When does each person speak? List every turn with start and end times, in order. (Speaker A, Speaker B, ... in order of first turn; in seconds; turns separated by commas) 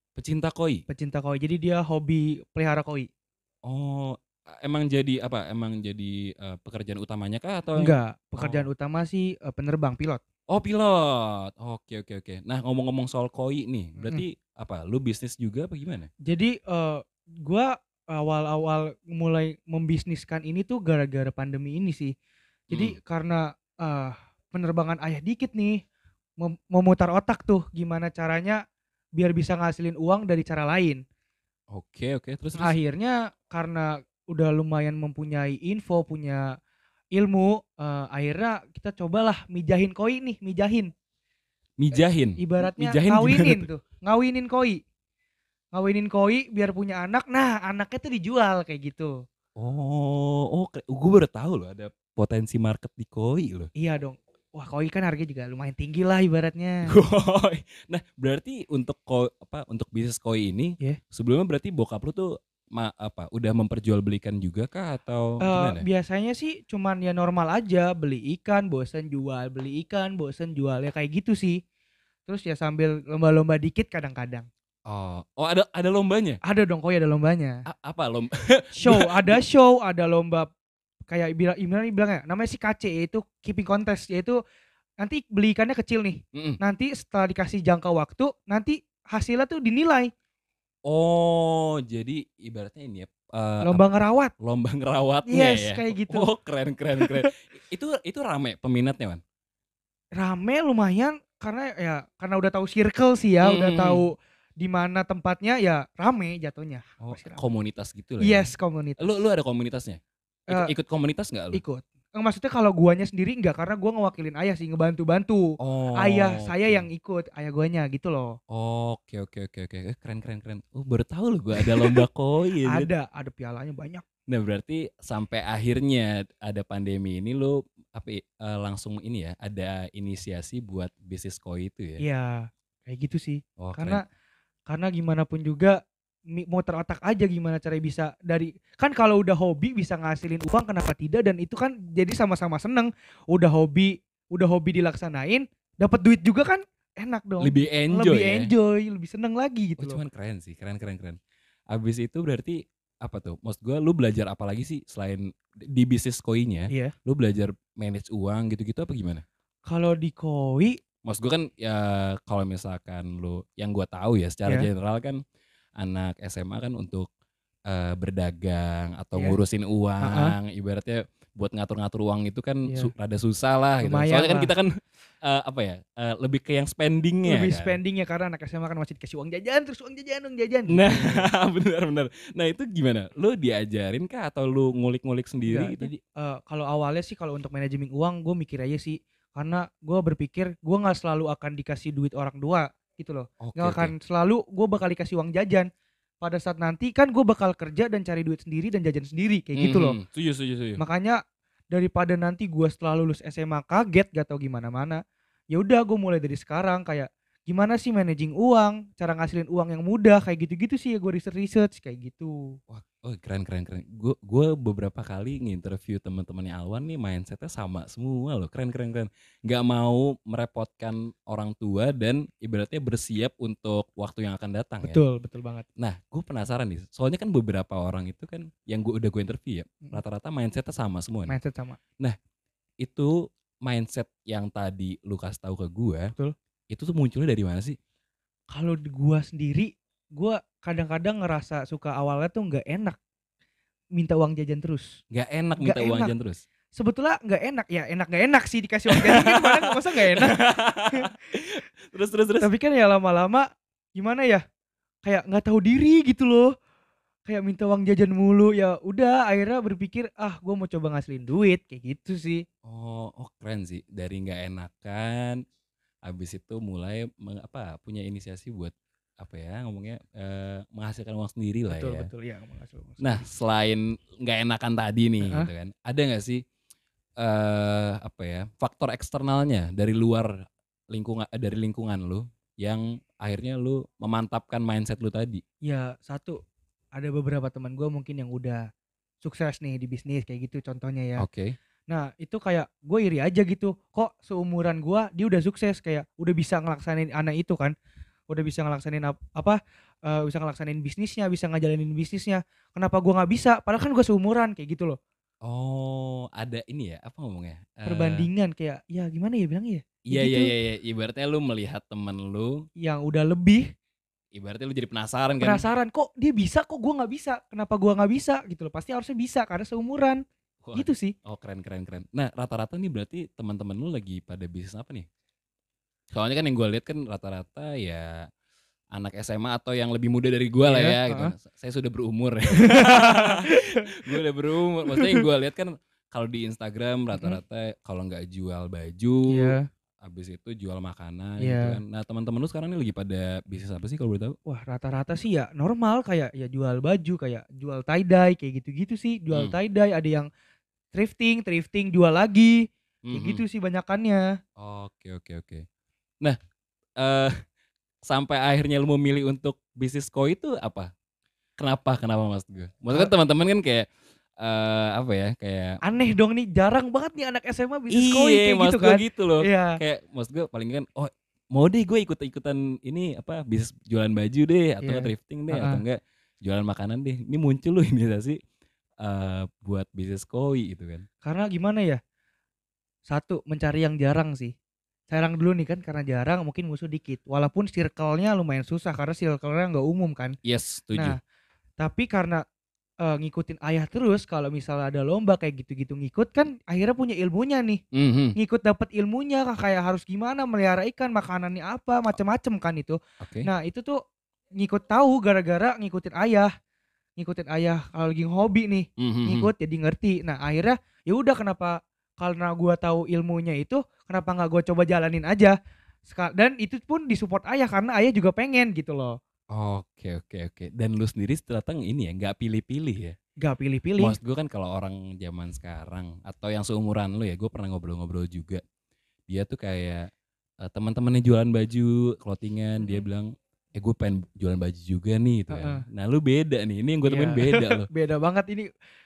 Speaker A: 0.2-0.8, Speaker B: 0.9-3.1, Speaker A: 3.6-8.7, Speaker B: 7.8-10.2, Speaker A: 10.5-16.1, Speaker B: 16.2-22.1, Speaker A: 22.7-23.0, Speaker B: 22.7-25.8, Speaker B: 26.4-28.6, Speaker B: 29.1-31.0, Speaker A: 31.7-32.7, Speaker B: 32.6-36.5, Speaker B: 37.1-40.9, Speaker A: 41.8-43.7, Speaker B: 42.4-44.8, Speaker B: 45.7-49.2, Speaker A: 49.6-53.7, Speaker B: 53.8-56.9, Speaker A: 56.9-65.8, Speaker B: 65.4-71.6, Speaker B: 72.3-74.5, Speaker A: 74.9-76.4, Speaker B: 76.4-77.6, Speaker A: 77.7-79.4, Speaker B: 78.8-80.5, Speaker B: 81.1-84.4, Speaker B: 85.0-90.1, Speaker A: 86.3-86.6, Speaker A: 90.9-93.8, Speaker B: 93.6-94.3, Speaker A: 94.4-99.2, Speaker B: 95.3-96.3, Speaker B: 97.0-97.3, Speaker B: 100.2-107.4, Speaker A: 103.4-104.0, Speaker A: 107.0-111.6, Speaker B: 108.2-109.2, Speaker B: 111.5-118.4, Speaker A: 115.6-116.8, Speaker A: 118.5-122.9, Speaker B: 121.6-122.0, Speaker B: 122.6-124.0, Speaker A: 124.3-132.0, Speaker B: 132.0-134.0, Speaker A: 133.6-134.0, Speaker B: 134.7-135.8, Speaker B: 136.3-150.0, Speaker A: 147.4-148.5, Speaker A: 149.8-151.2, Speaker A: 151.7-159.2, Speaker B: 159.7-160.8, Speaker A: 161.0-165.2, Speaker A: 165.8-167.1, Speaker A: 167.7-174.7, Speaker B: 170.0-170.3, Speaker B: 173.8-174.5, Speaker A: 175.2-177.8, Speaker B: 177.2-181.3, Speaker A: 180.7-185.9, Speaker B: 185.5-195.7, Speaker A: 193.4-193.9, Speaker B: 196.2-199.9, Speaker A: 199.6-200.8, Speaker B: 200.8-201.2, Speaker B: 201.7-212.6, Speaker A: 212.7-225.0, Speaker B: 224.8-225.7, Speaker A: 225.8-231.3, Speaker B: 231.3-231.8, Speaker A: 232.8-236.1, Speaker A: 236.7-237.8, Speaker B: 238.5-243.0, Speaker B: 243.9-245.0, Speaker A: 245.1-246.4, Speaker B: 245.6-246.1, Speaker B: 246.7-250.4, Speaker A: 248.9-252.5, Speaker B: 252.4-254.4, Speaker B: 255.0-256.5, Speaker B: 257.3-262.4, Speaker A: 262.6-265.4, Speaker A: 266.0-272.1, Speaker B: 271.7-273.2, Speaker A: 273.0-276.4, Speaker B: 275.2-275.5, Speaker A: 277.2-285.4, Speaker B: 285.6-286.4, Speaker B: 286.9-288.6, Speaker B: 289.2-291.2, Speaker A: 291.2-291.6, Speaker B: 291.9-297.7, Speaker B: 298.3-305.0, Speaker A: 305.4-308.3, Speaker B: 307.9-310.5, Speaker A: 310.1-312.7, Speaker B: 312.8-313.6, Speaker A: 314.3-315.6, Speaker B: 315.4-320.2, Speaker A: 320.6-325.1, Speaker B: 320.8-321.1, Speaker A: 326.1-328.3, Speaker A: 328.9-344.4, Speaker B: 330.7-331.3, Speaker B: 332.6-334.1, Speaker B: 334.9-335.2, Speaker B: 339.3-339.6, Speaker B: 341.4-341.8, Speaker B: 344.4-350.3, Speaker B: 350.9-354.3, Speaker A: 353.1-353.4, Speaker A: 354.6-355.6, Speaker A: 357.0-357.4, Speaker A: 358.1-360.9, Speaker A: 361.6-363.9, Speaker A: 364.4-365.8, Speaker B: 365.8-369.8, Speaker A: 367.9-378.4, Speaker B: 374.8-375.8, Speaker A: 379.0-381.1, Speaker B: 381.2-382.0, Speaker B: 383.1-384.5, Speaker B: 385.1-390.4, Speaker A: 390.4-391.2, Speaker B: 391.8-392.4, Speaker B: 393.0-397.8, Speaker A: 397.9-398.4, Speaker B: 398.4-404.0, Speaker A: 403.2-403.5, Speaker B: 404.6-406.5, Speaker B: 407.2-415.5, Speaker A: 409.0-409.5, Speaker B: 416.1-419.2, Speaker A: 419.5-423.1, Speaker B: 423.4-424.2, Speaker A: 424.0-428.6, Speaker A: 429.3-430.1, Speaker A: 430.6-437.9, Speaker B: 432.8-433.1, Speaker B: 435.5-435.8, Speaker B: 437.1-438.7